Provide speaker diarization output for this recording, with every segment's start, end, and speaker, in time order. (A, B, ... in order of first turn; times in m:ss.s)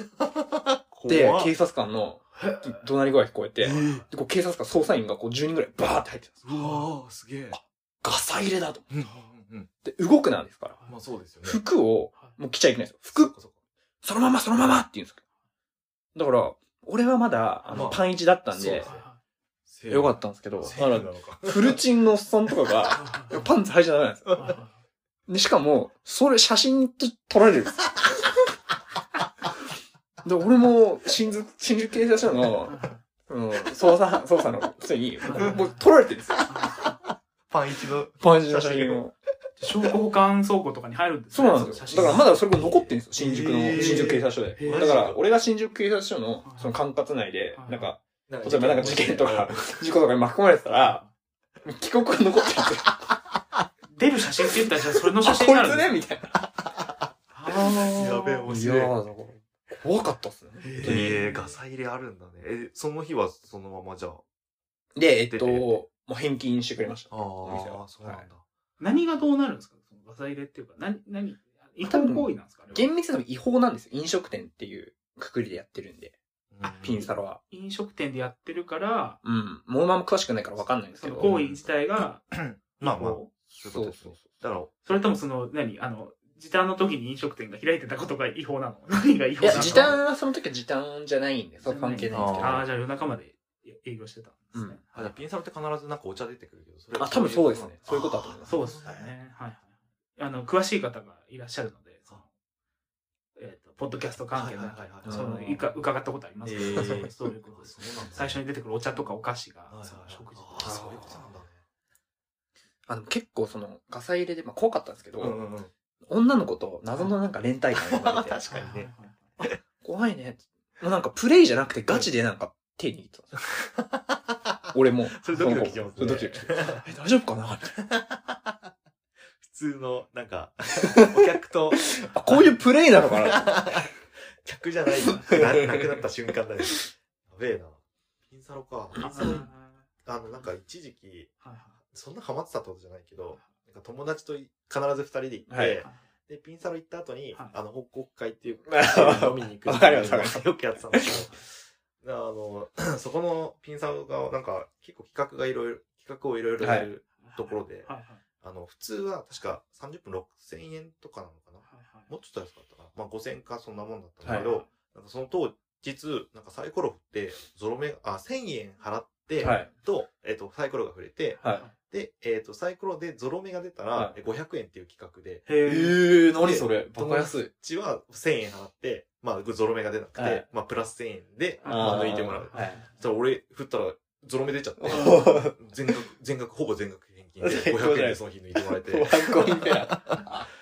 0:00.3-0:01.5 A
0:01.1-0:06.7 B
0:02.4-0:02.8 C
0:03.6-0:04.1 A
0:06.4-0:07.6 A
0:06.5-0:06.8 C
0:07.5-0:08.9 B
0:08.9-0:09.7 A
0:09.8-0:10.8 B
0:10.9-0:11.6 A
0:11.4-0:13.3 B
0:13.1-0:13.6 A
0:14.0-0:15.2 B
0:16.2-0:18.9 B
0:17.7-0:17.9 C
0:17.7-0:19.1 A
0:18.8-0:19.2 C
0:19.7-0:21.8 A
0:19.9-0:24.6 B
0:23.0-0:23.5 C
0:24.3-0:24.6 A
0:24.4-0:24.8 C
0:25.3-0:28.3 B
0:30.2-0:36.5 B
0:32.7-0:33.0 C
0:35.3-0:35.9 C
0:36.5-0:37.0 C
0:37.5-0:39.1 A
0:38.2-0:39.1 B
0:39.6-0:42.3 C
0:41.3-0:51.0 B
0:41.7-0:45.2 A
0:43.7-0:44.9 C
0:46.4-0:46.8 C
0:47.5-0:47.9 C
0:48.3-0:49.9 A
0:50.8-0:51.1 C
0:51.6-0:53.2 B
0:53.8-0:56.0 C
0:55.2-0:56.5 B
0:57.3-0:58.5 C
0:57.5-0:59.0 A
0:57.7-1:01.2 B
1:00.6-1:04.2 A
1:00.7-1:01.6 C
1:05.0-1:07.8 B
1:05.3-1:05.8 A
1:07.1-1:08.4 A
1:08.0-1:12.9 C
1:11.8-1:16.2 B
1:16.5-1:17.1 A
1:16.6-1:19.2 C
1:16.8-1:17.4 B
1:19.2-1:21.3 B
1:20.9-1:23.3 C
1:21.2-1:21.6 A
1:22.3-1:25.0 A
1:23.6-1:24.3 B
1:24.8-1:30.0 C
1:29.4-1:32.7 B
1:29.5-1:30.0 A
1:31.6-1:35.2 C
1:32.1-1:32.7 A
1:34.5-1:34.8 B
1:34.9-1:39.1 A
1:37.0-1:38.6 B
1:38.4-1:42.3 C
1:43.4-1:50.8 C
1:44.3-1:45.4 A
1:45.0-1:45.7 B
1:46.4-1:48.4 A
1:49.7-1:51.6 A
1:50.6-1:51.2 B
1:52.9-1:55.4 B
1:55.2-1:55.7 A
1:56.1-1:58.5 B
1:57.9-1:58.9 A
1:58.5-1:59.4 C
1:59.6-2:03.4 B
2:01.9-2:02.1 A
2:03.6-2:04.4 A
2:04.7-2:07.8 B
2:05.2-2:06.8 A
2:05.3-2:05.8 C
2:07.9-2:08.5 A
2:09.4-2:19.5 A
2:11.9-2:13.7 B
2:15.1-2:16.0 B
2:19.0-2:19.5 B
2:19.0-2:19.9 C
2:20.0-2:21.3 A
2:21.4-2:21.8 C
2:21.9-2:55.6 A
2:25.5-2:25.8 B
2:25.8-2:26.1 C
2:28.7-2:31.3 B
2:31.1-2:31.3 C
2:36.6-2:36.9 B
2:37.2-2:38.2 C
2:41.6-2:42.1 C
2:44.2-2:44.5 B
2:44.3-2:44.7 C
2:49.4-2:49.7 B
2:51.4-2:51.8 C
2:51.4-2:51.7 B
2:55.5-2:56.0 C
2:55.6-2:57.5 B
2:56.4-3:10.2 A
3:00.2-3:00.5 B
3:01.6-3:03.0 C
3:01.6-3:02.9 B
3:04.8-3:05.6 B
3:07.4-3:10.5 B